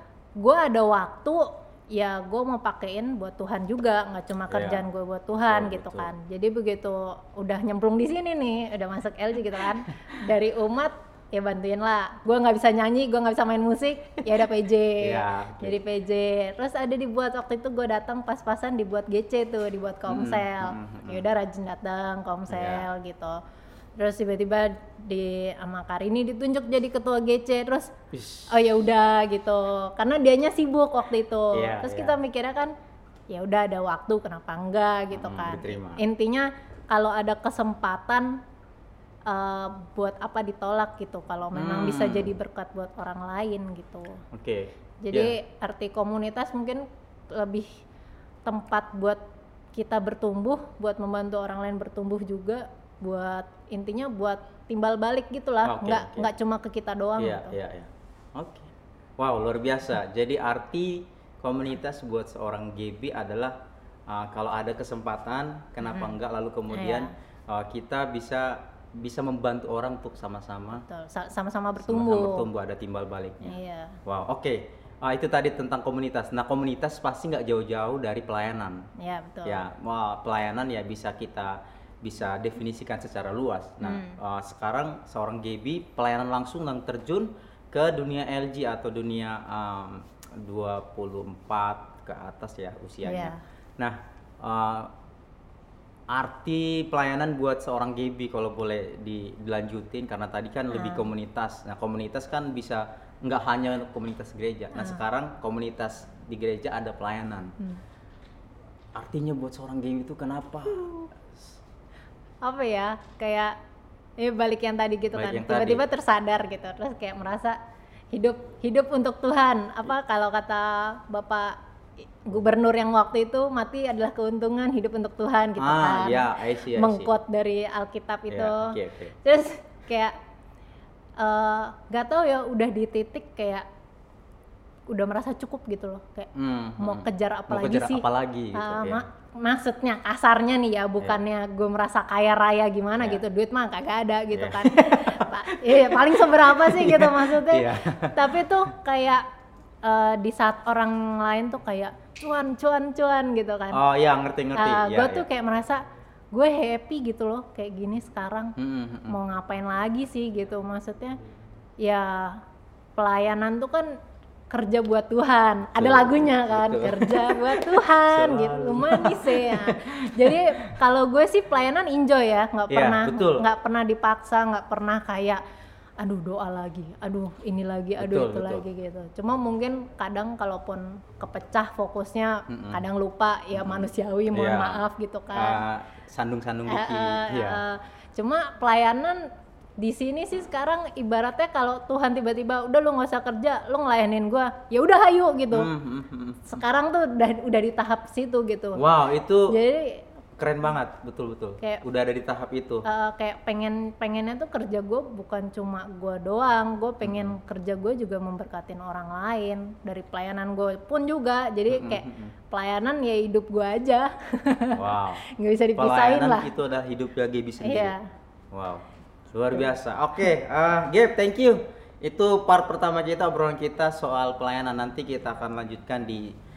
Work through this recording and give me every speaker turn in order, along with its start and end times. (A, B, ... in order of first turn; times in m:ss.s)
0:00.4-0:23.4 A
0:04.5-0:04.9 B
0:05.5-0:06.1 B
0:15.0-0:15.8 B
0:20.1-0:21.3 B
0:22.5-0:22.9 B
0:24.0-0:27.9 A
0:28.1-0:28.8 B
0:28.5-0:32.7 A
0:31.5-0:32.2 B
0:33.3-0:38.3 A
0:35.1-0:36.0 B
0:39.3-0:44.2 A
0:41.5-0:42.4 B
0:44.3-0:45.4 B
0:45.0-0:47.8 A
0:48.4-0:49.2 A
0:49.7-0:57.6 A
0:55.6-0:56.3 B
0:57.2-1:03.6 B
1:04.1-1:10.8 B
1:05.9-1:06.1 A
1:06.7-1:07.1 A
1:10.7-1:12.5 A
1:11.8-1:18.9 B
1:13.4-1:14.0 A
1:19.0-1:19.6 A
1:19.4-1:34.9 B
1:23.8-1:24.2 A
1:33.0-1:33.4 A
1:36.1-1:47.5 B
1:40.7-1:41.1 A
1:44.7-1:45.0 A
1:49.0-1:51.0 B
1:52.4-1:53.6 A
1:54.2-1:57.6 A
1:55.1-1:55.8 B
1:58.1-2:01.6 A
2:02.2-2:10.1 A
2:05.6-2:07.1 B
2:08.3-2:09.2 B
2:11.2-2:13.6 A
2:14.9-2:29.2 A
2:16.4-2:19.0 B
2:24.3-2:28.4 B
2:29.8-2:33.8 A
2:33.7-2:35.3 B
2:34.6-2:35.8 A
2:36.3-2:38.6 A
2:38.6-2:39.2 B
2:39.1-2:41.2 A
2:41.8-2:42.4 A
2:43.0-2:43.9 A
2:44.5-2:55.4 A
2:45.8-2:50.7 B
2:52.7-2:53.5 B
2:56.0-3:05.6 A
2:58.0-2:58.6 B
3:02.5-3:02.8 B
3:03.5-3:07.6 B
3:06.7-3:09.2 A
3:09.8-3:15.7 A
3:15.5-3:16.6 B
3:16.4-3:18.8 A
3:18.8-3:19.6 B
3:19.5-3:20.0 A
3:20.4-3:22.8 B
3:22.9-3:36.5 A
3:27.0-3:27.4 B
3:31.7-3:32.4 B
3:34.7-3:35.3 B
3:35.8-3:37.9 B
3:37.6-3:38.0 A
3:38.5-3:46.3 B